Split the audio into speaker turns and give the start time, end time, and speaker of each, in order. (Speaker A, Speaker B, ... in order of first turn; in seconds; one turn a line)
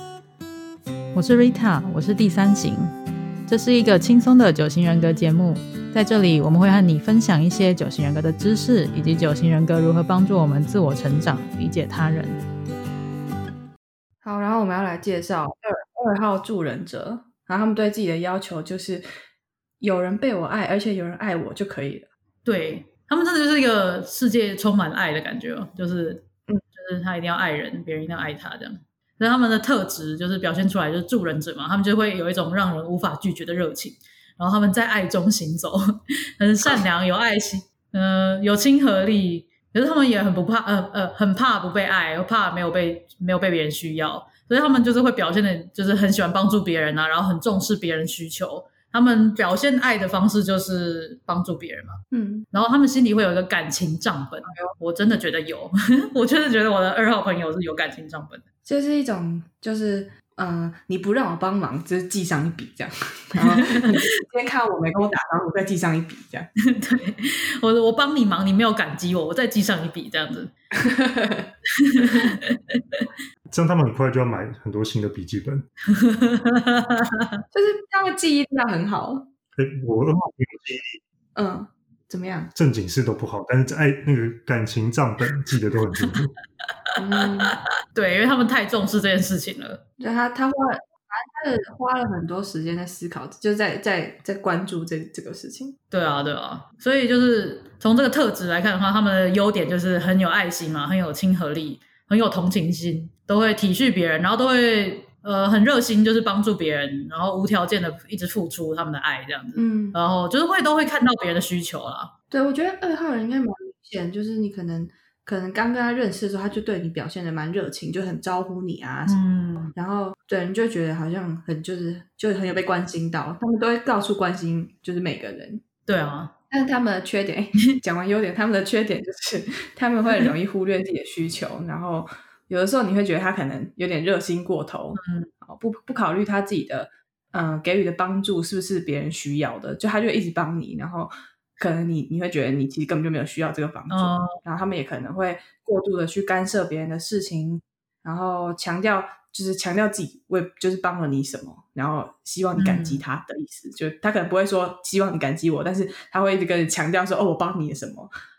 Speaker A: 1.2-2.4
Speaker B: 1.3-2.9
Speaker B: 3.5-12.4
Speaker A: 3.6-5.5
Speaker A: 6.5-7.8
Speaker A: 8.3-8.7
Speaker A: 10.1-11.5
Speaker C: 14.2-19.1
Speaker C: 19.8-22.1
Speaker A: 22.4-52.0
Speaker C: 52.1-52.5
Speaker A: 52.5-58.4
Speaker C: 54.5-54.7
Speaker C: 58.6-66.5
Speaker A: 63.6-63.9
Speaker A: 66.7-70.5
Speaker C: 70.8-72.3
Speaker A: 71.8-73.1
Speaker D: 73.5-75.7
Speaker A: 75.9-77.2
Speaker C: 77.5-79.3
Speaker D: 79.6-81.0
Speaker C: 81.4-82.5
Speaker D: 82.5-86.3
Speaker C: 87.0-87.6
Speaker A: 87.9-89.8
Speaker C: 90.0-95.8
Speaker A: 95.9-112.1
Speaker C: 109.6-110.0
Speaker C: 112.3-119.2
Speaker A: 119.1-119.7
Speaker C: 119.8-125.6
Speaker A: 125.9-126.3
Speaker C: 126.5-158.1
Speaker A: 135.0-135.3
Speaker A: 143.9-144.3
Speaker A: 152.6-153.0